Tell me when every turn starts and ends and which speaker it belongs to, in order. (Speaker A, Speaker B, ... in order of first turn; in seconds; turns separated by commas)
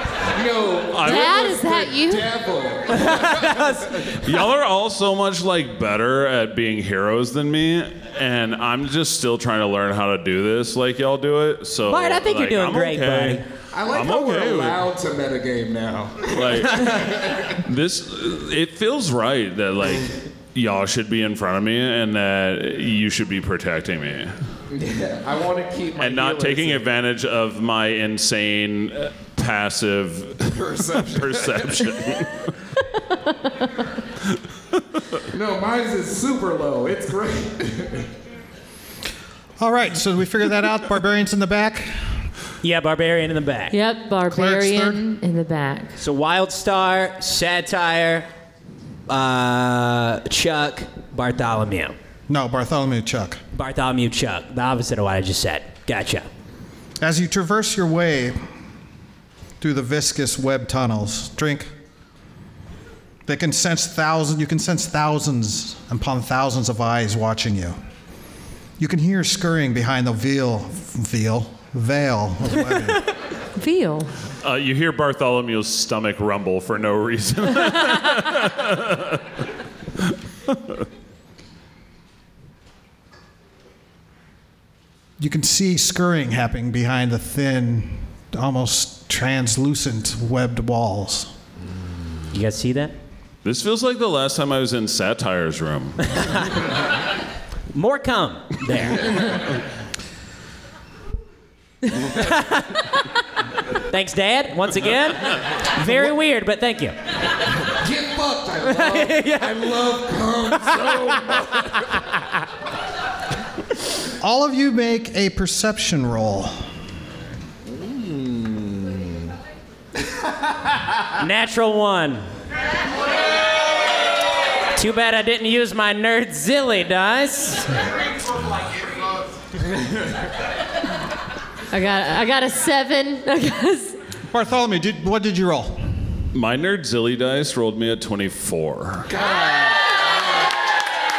Speaker A: 0.3-4.1, Speaker B: 0.9-1.6, Speaker C: 1.0-2.3, Speaker D: 3.0-4.0, Speaker B: 4.2-14.9, Speaker D: 11.9-13.4, Speaker A: 13.7-17.6, Speaker B: 16.3-24.3, Speaker A: 24.7-26.9, Speaker B: 26.0-32.5, Speaker A: 30.5-31.9, Speaker A: 35.3-38.1, Speaker E: 39.6-42.2, Speaker D: 42.6-43.7, Speaker C: 43.7-46.0, Speaker E: 44.3-45.0, Speaker D: 46.0-48.3, Speaker D: 49.1-52.0, Speaker E: 52.3-53.4, Speaker D: 53.5-56.3, Speaker E: 57.0-58.4, Speaker E: 59.6-61.7, Speaker E: 63.2-67.8, Speaker E: 68.8-73.0, Speaker C: 73.5-74.1, Speaker B: 74.4-79.2, Speaker E: 85.2-91.3, Speaker D: 92.3-92.9, Speaker B: 93.4-96.2, Speaker D: 96.1-96.4, Speaker D: 97.7-99.4, Speaker D: 102.0-102.8, Speaker D: 103.8-107.0, Speaker A: 107.7-111.8, Speaker D: 108.7-109.7, Speaker D: 110.7-111.7, Speaker E: 114.2-116.6, Speaker A: 117.6-119.3, Speaker A: 120.0-120.8, Speaker D: 121.2-122.3, Speaker D: 124.7-127.8, Speaker C: 131.7-133.9, Speaker E: 134.3-135.9, Speaker B: 136.3-139.1, Speaker A: 139.1-140.0